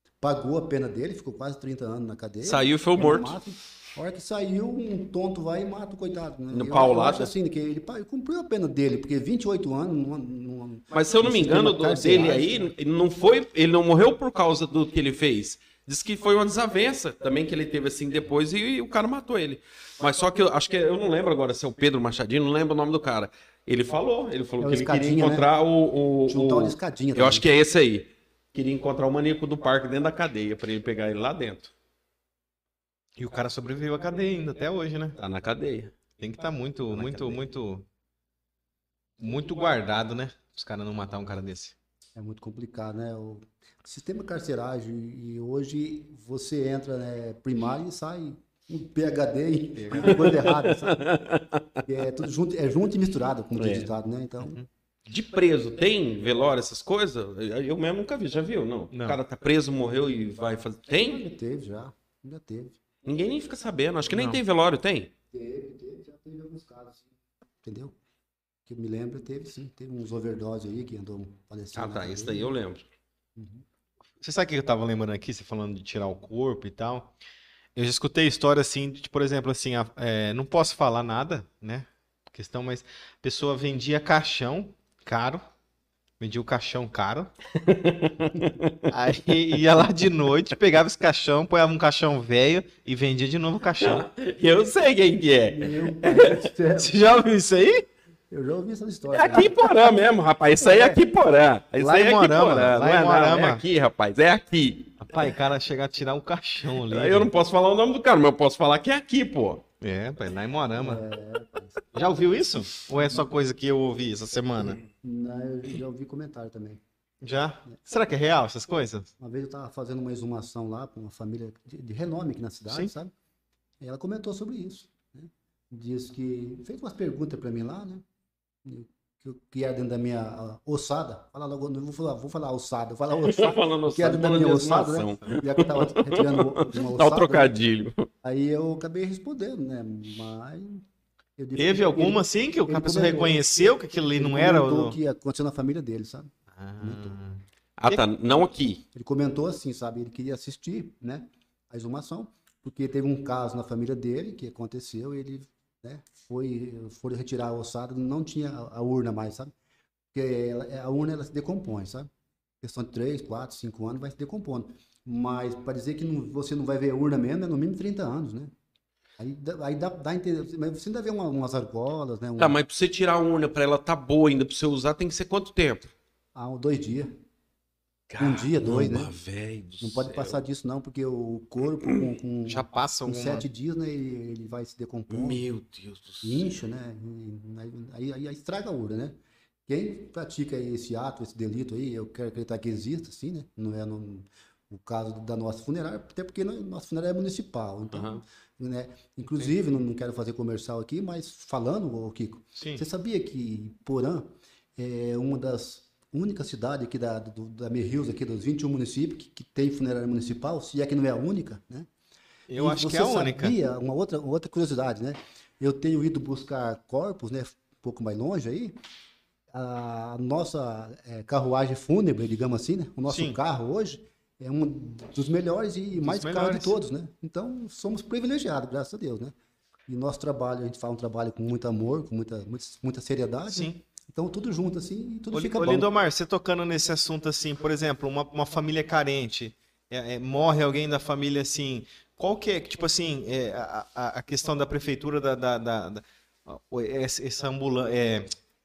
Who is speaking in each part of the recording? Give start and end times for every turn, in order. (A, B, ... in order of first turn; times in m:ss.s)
0:00.2-0:12.7 A
0:02.4-0:03.4 B
0:06.5-0:07.3 B
0:10.9-0:31.7 B
0:24.6-0:25.5 A
0:26.3-0:27.5 A
0:33.2-0:35.2 C
0:35.2-0:36.0 B
0:36.2-0:37.9 C
0:36.9-0:37.4 B
0:39.2-0:41.8 C
0:42.2-0:51.0 A
0:49.8-0:50.3 C
0:50.2-0:51.8 B
0:51.9-0:54.6 A
0:53.6-0:53.9 B
0:55.1-1:01.2 B
0:58.9-0:59.2 C
1:01.0-1:02.8 A
1:03.0-1:05.1 B
1:04.1-1:04.4 C
1:05.3-1:07.1 A
1:07.6-1:08.0 A
1:08.7-1:12.5 A
1:11.8-1:12.9 B
1:13.4-1:13.6 A
1:14.2-1:17.1 C
1:17.8-1:25.4 C
1:26.2-1:27.3 C
1:27.6-1:28.9 B
1:28.9-1:34.0 C
1:33.8-1:36.5 B
1:35.5-1:37.0 A
1:36.8-1:37.9 C
1:38.3-1:39.6 A
1:39.1-1:45.0 B
1:40.6-1:41.0 A
1:41.8-1:43.6 C
1:45.0-1:47.3 C
1:46.9-1:49.6 B
1:49.8-1:51.0 C
1:50.8-1:51.8 A
1:51.9-1:54.8 C
1:55.0-1:56.8 A
1:57.2-1:59.1 C
1:59.2-2:03.1 A
2:03.8-2:08.0 A
2:08.6-2:17.6 A
2:13.2-2:18.1 B
2:18.2-2:20.8 A
2:21.4-2:23.4 A
2:21.6-2:25.0 C
2:24.2-2:27.2 A
2:26.5-2:28.0 C
2:27.8-2:28.8 B
2:28.9-2:39.5 A
2:40.1-2:42.1 A
2:42.6-2:48.5 A
2:49.2-2:52.6 A
2:52.4-2:55.9 B
2:56.4-2:57.2 A
2:58.1-3:00.4 B
2:58.2-2:59.1 A
2:59.8-3:05.4 A
3:02.4-3:03.4 C
3:05.1-3:06.5 B
3:06.2-3:09.2 A
3:09.7-3:31.9 A
3:17.9-3:18.2 B
3:22.6-3:22.8 C
3:32.5-3:33.6 C
3:32.6-3:38.8 A
3:39.5-3:49.3 A
3:43.1-3:43.4 C
3:46.0-3:46.8 C
3:49.9-3:55.9 A
3:53.5-3:53.8 C
3:55.3-4:08.3 C